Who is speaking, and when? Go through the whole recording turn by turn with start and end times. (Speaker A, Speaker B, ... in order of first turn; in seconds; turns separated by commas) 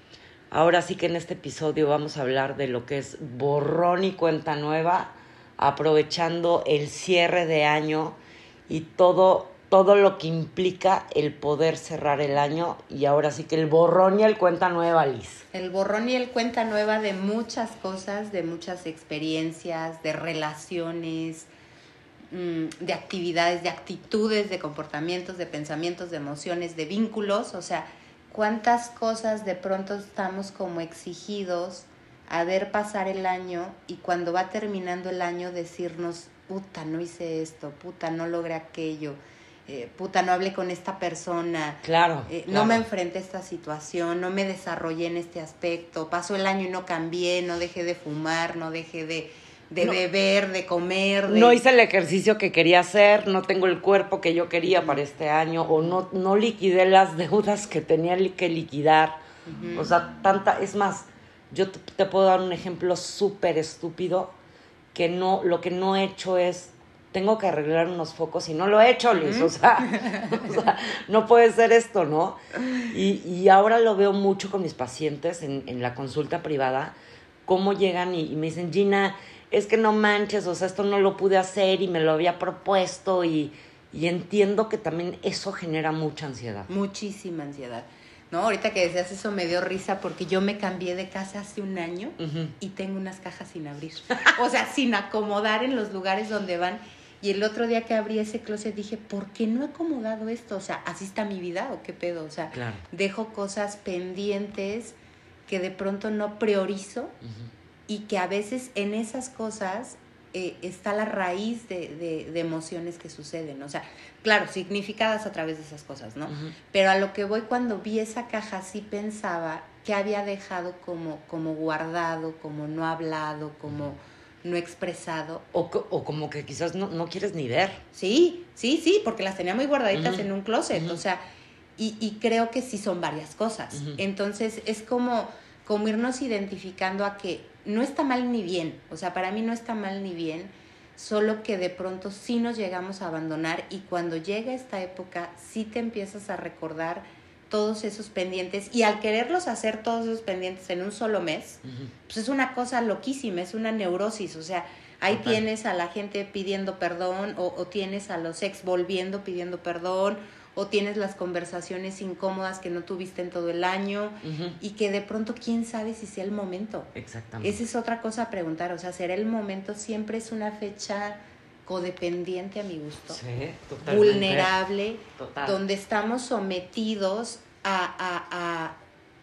Speaker A: 0.5-8.2, Speaker A: 8.7-15.4, Speaker B: 15.5-21.5, Speaker B: 22.3-51.6, Speaker A: 41.8-42.8, Speaker A: 51.3-59.2, Speaker B: 59.5-59.9, Speaker A: 59.7-64.3, Speaker A: 64.9-86.7, Speaker B: 69.2-70.3, Speaker B: 86.7-105.0, Speaker A: 92.2-92.5, Speaker A: 102.5-102.8, Speaker B: 105.5-107.2, Speaker A: 107.2-107.5, Speaker B: 107.9-125.5, Speaker A: 125.5-127.8, Speaker B: 127.9-131.2, Speaker A: 129.9-131.0, Speaker B: 131.8-173.2, Speaker A: 133.7-134.0, Speaker A: 155.1-155.4, Speaker A: 164.2-164.6, Speaker A: 166.9-167.6, Speaker A: 173.1-174.5, Speaker B: 173.8-178.8, Speaker A: 175.2-175.6